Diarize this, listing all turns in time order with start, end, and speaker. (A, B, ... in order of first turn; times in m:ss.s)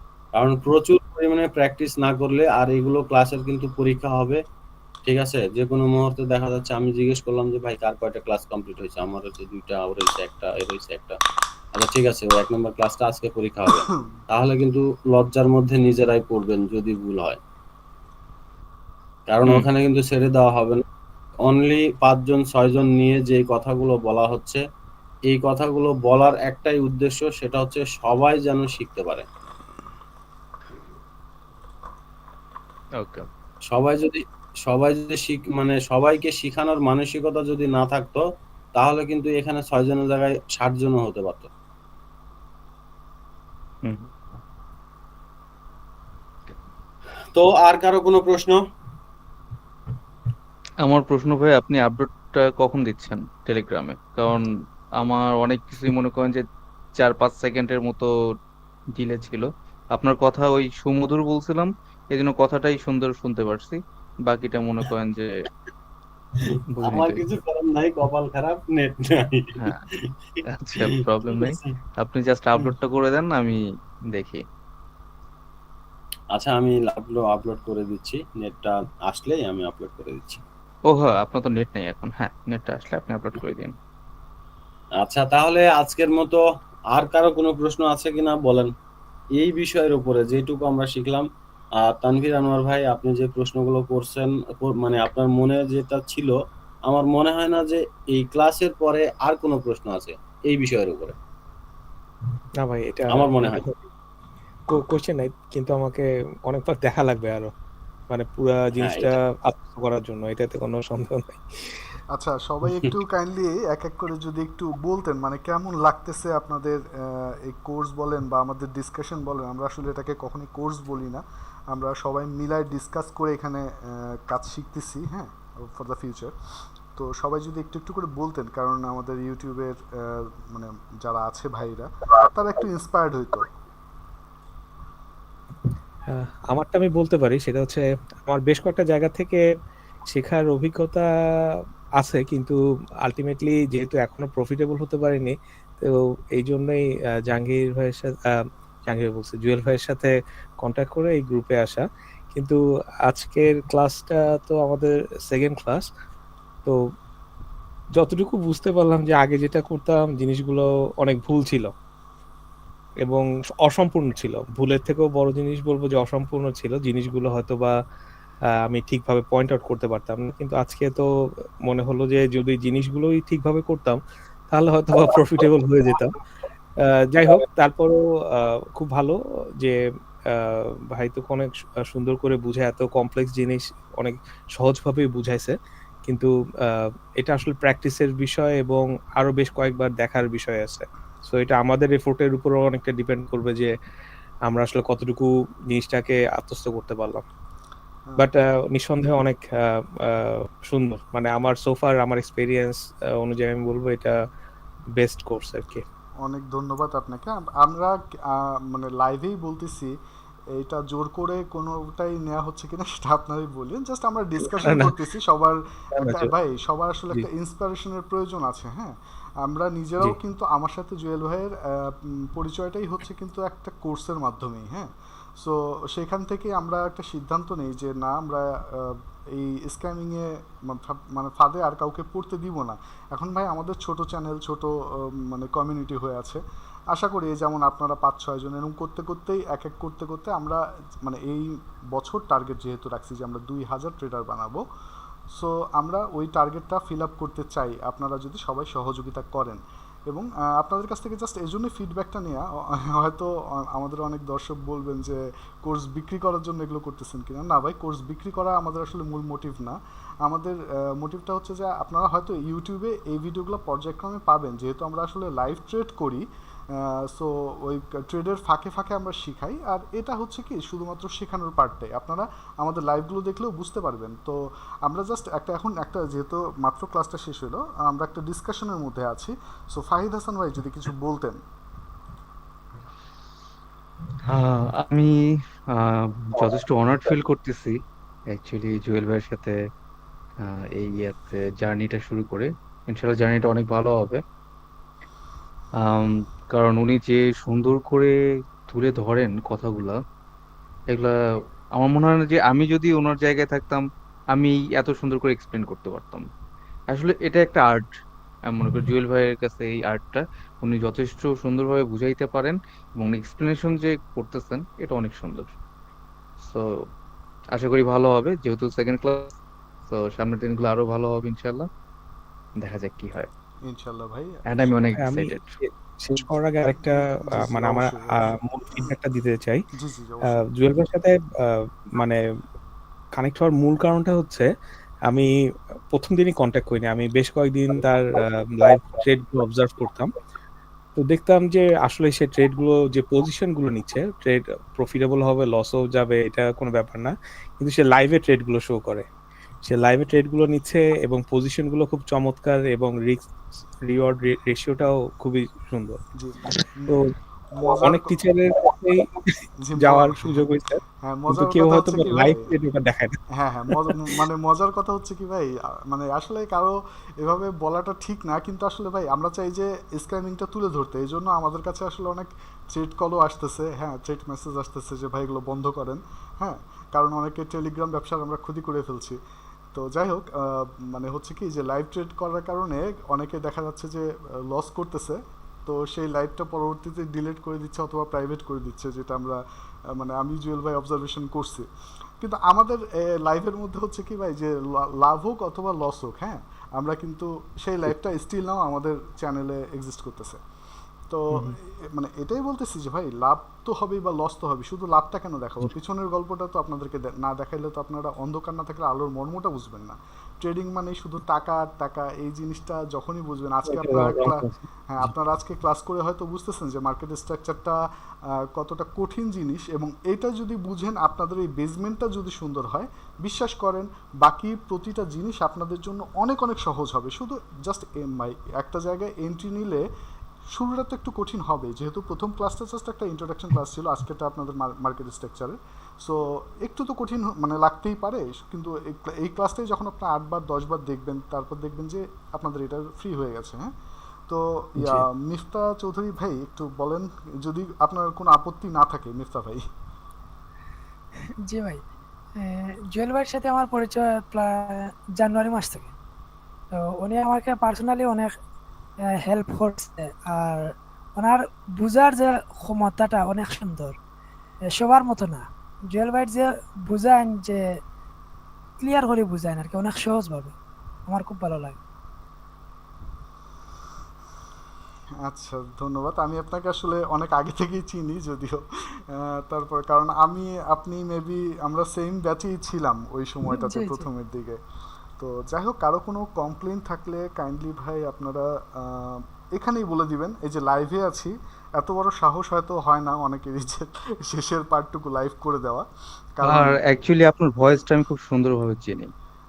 0:00.4-0:04.4 A
0:05.1-0:11.2 A
0:11.8-0:17.4 A
0:19.3-0:20.8 A
0:21.5-0:24.6 A
0:25.3-0:29.3 A
0:33.0-0:33.3 B
0:33.7-0:38.2 A
0:38.8-0:41.5 A
0:43.8-0:44.1 B
0:47.4-0:48.6 A
0:50.8-0:54.5 B
0:55.0-0:56.4 B
0:57.0-0:58.1 B
0:59.0-1:05.4 B
1:06.4-1:09.6 A
1:06.8-1:07.2 B
1:10.5-1:13.6 B
1:10.8-1:11.7 A
1:14.1-1:14.4 B
1:16.3-1:20.4 A
1:20.9-1:23.8 B
1:25.0-1:26.4 A
1:26.9-1:28.7 A
1:29.4-1:31.3 A
1:31.8-1:36.4 A
1:36.9-1:41.2 A
1:42.6-1:43.8 C
1:43.1-1:43.7 A
1:44.7-1:47.5 C
1:48.1-1:51.4 C
1:48.8-1:49.1 A
1:52.1-2:06.3 D
2:07.0-2:13.5 D
2:16.1-2:19.4 C
2:20.1-2:21.1 C
2:22.0-2:35.9 C
2:38.0-2:41.7 C
2:43.0-2:47.8 C
2:48.7-2:51.1 C
2:51.7-2:54.0 C
2:54.5-2:56.1 C
2:56.8-2:59.8 C
3:00.3-3:13.7 C
3:14.5-3:17.2 C
3:18.2-3:24.1 C
3:25.0-3:25.8 C
3:26.2-3:29.9 D
3:30.6-3:56.4 D
3:34.5-3:35.0 C
3:36.0-3:36.3 C
3:56.9-4:04.6 D
4:05.3-4:41.4 D
4:44.3-4:45.2 B
4:45.7-4:47.8 B
4:48.3-4:49.6 B
4:50.4-4:54.2 B
4:55.8-4:58.1 B
4:58.7-5:00.0 B
5:01.8-5:03.8 B
5:04.4-5:06.2 B
5:06.9-5:07.9 B
5:08.5-5:15.5 B
5:16.4-5:16.9 B
5:17.6-5:19.3 B
5:19.9-5:21.7 B
5:22.6-5:23.3 B
5:23.7-5:24.3 D
5:24.5-5:25.5 B
5:25.0-5:29.6 C
5:26.2-5:28.9 D
5:29.7-5:30.4 D
5:30.3-5:32.2 C
5:33.2-5:34.5 C
5:35.9-5:40.1 C
5:41.0-5:49.1 C
5:49.7-5:53.3 C
5:53.8-5:56.0 C
5:56.2-5:57.0 D
5:57.6-5:58.2 D
5:57.6-6:00.8 C
5:59.6-6:00.4 D
6:01.0-6:02.5 D
6:01.3-6:03.2 C
6:03.3-6:19.2 D
6:03.7-6:04.2 C
6:19.7-6:29.4 D
6:29.9-6:31.7 D
6:32.2-6:40.4 D
6:41.1-6:57.8 D
6:53.7-6:54.5 C
6:58.5-7:09.8 D
7:10.5-7:23.7 D
7:24.3-7:29.6 D
7:31.5-7:31.8 E
7:32.4-7:35.9 E
7:36.8-7:38.3 E
7:39.1-7:44.0 E
7:44.7-7:47.6 E
7:48.8-7:50.5 E
7:51.1-7:51.8 E
7:55.2-8:04.6 D
8:03.5-8:04.1 E
8:05.2-8:16.8 D
8:16.4-8:19.1 B